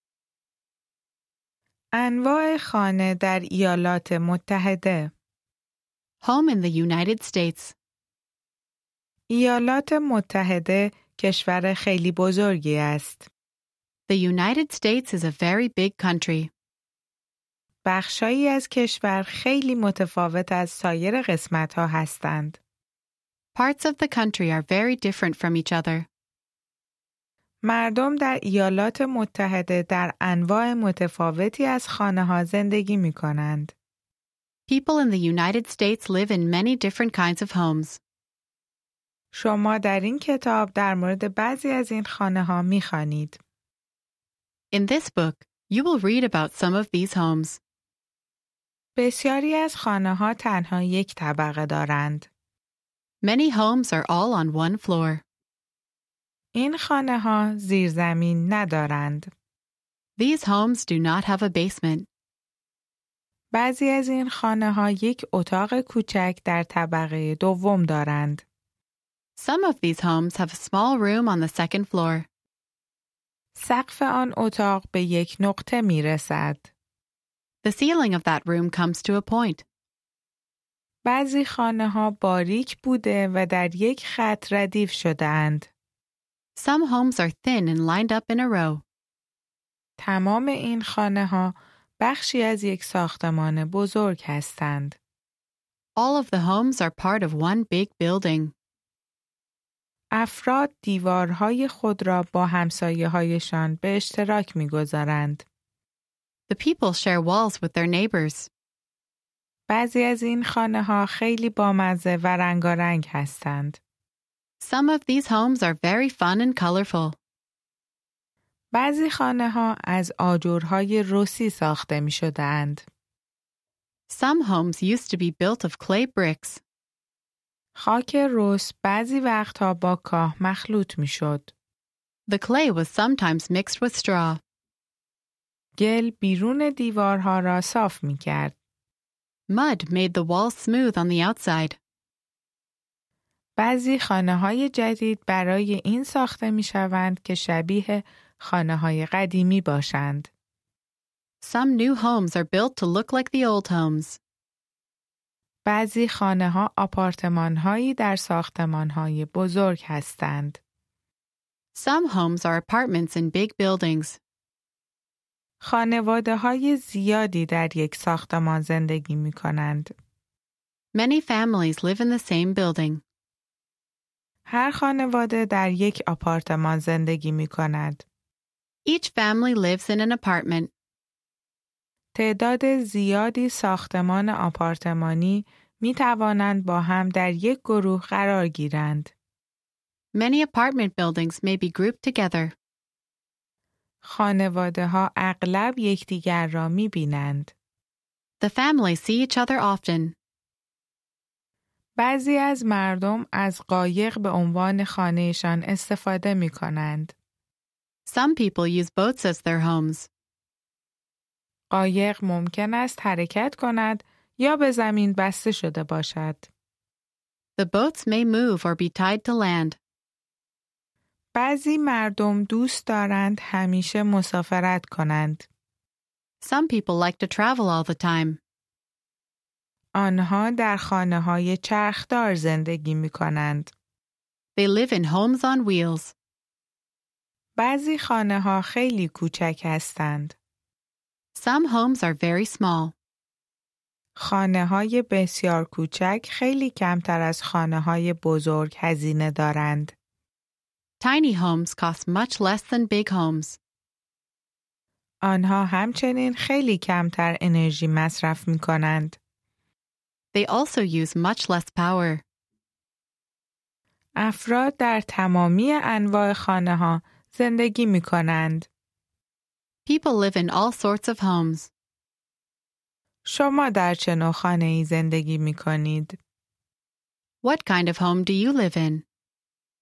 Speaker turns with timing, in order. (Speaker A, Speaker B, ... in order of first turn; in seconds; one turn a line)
Speaker A: 1.9-5.1
Speaker B: 6.2-7.7
Speaker A: 9.3-13.3
Speaker B: 14.1-16.5
Speaker A: 17.8-22.6
Speaker B: 23.5-26.1
Speaker A: 27.6-33.7
Speaker B: 34.7-38.0
Speaker A: 39.3-43.4
Speaker B: 44.7-47.6
Speaker A: 49.0-52.3
Speaker B: 53.2-55.2
Speaker A: 56.5-59.3
Speaker B: 60.2-62.1
Speaker A: 63.5-68.4
Speaker B: 69.4-72.2
Speaker A: 73.5-76.7
Speaker B: 77.6-79.6
Speaker A: 81.0-85.7
Speaker B: 86.6-88.8
Speaker A: 90.0-95.0
Speaker B: 96.0-98.5
Speaker A: 100.1-105.4
Speaker B: 106.5-108.5
Speaker A: 109.7-113.8
Speaker B: 114.6-117.2
Speaker A: 118.7-122.8
Speaker B: 124.1-126.6
Speaker A: 127.8-131.5
Speaker B: 132.3-134.4
Speaker A: 135.8-138.5
Speaker B: 139.5-141.8
Speaker A: 143.6-150.3
Speaker B: 151.4-154.2
Speaker A: 155.6-160.6
Speaker B: 161.7-164.2
Speaker A: 165.6-169.9
Speaker B: 170.9-173.0
Speaker A: 174.5-178.0
Speaker B: 178.8-180.7
Speaker A: 182.1-189.1
Speaker B: 190.1-192.6
Speaker A: 194.0-197.5
Speaker B: 198.4-200.1
Speaker A: 202.0-207.1
Speaker B: 208.1-210.1
Speaker A: 211.7-216.5
Speaker B: 217.6-219.8
Speaker A: 221.3-225.5
Speaker B: 226.4-228.4
Speaker A: 230.0-233.7
Speaker B: 234.6-236.1
Speaker A: 237.6-240.3
Speaker B: 241.3-242.9
Speaker A: 244.2-249.9
Speaker B: 251.0-253.6
Speaker A: 255.2-259.2
Speaker B: 260.3-262.2
Speaker A: 264.2-268.7
Speaker B: 269.9-271.7
Speaker A: 273.2-276.2
Speaker B: 277.4-279.0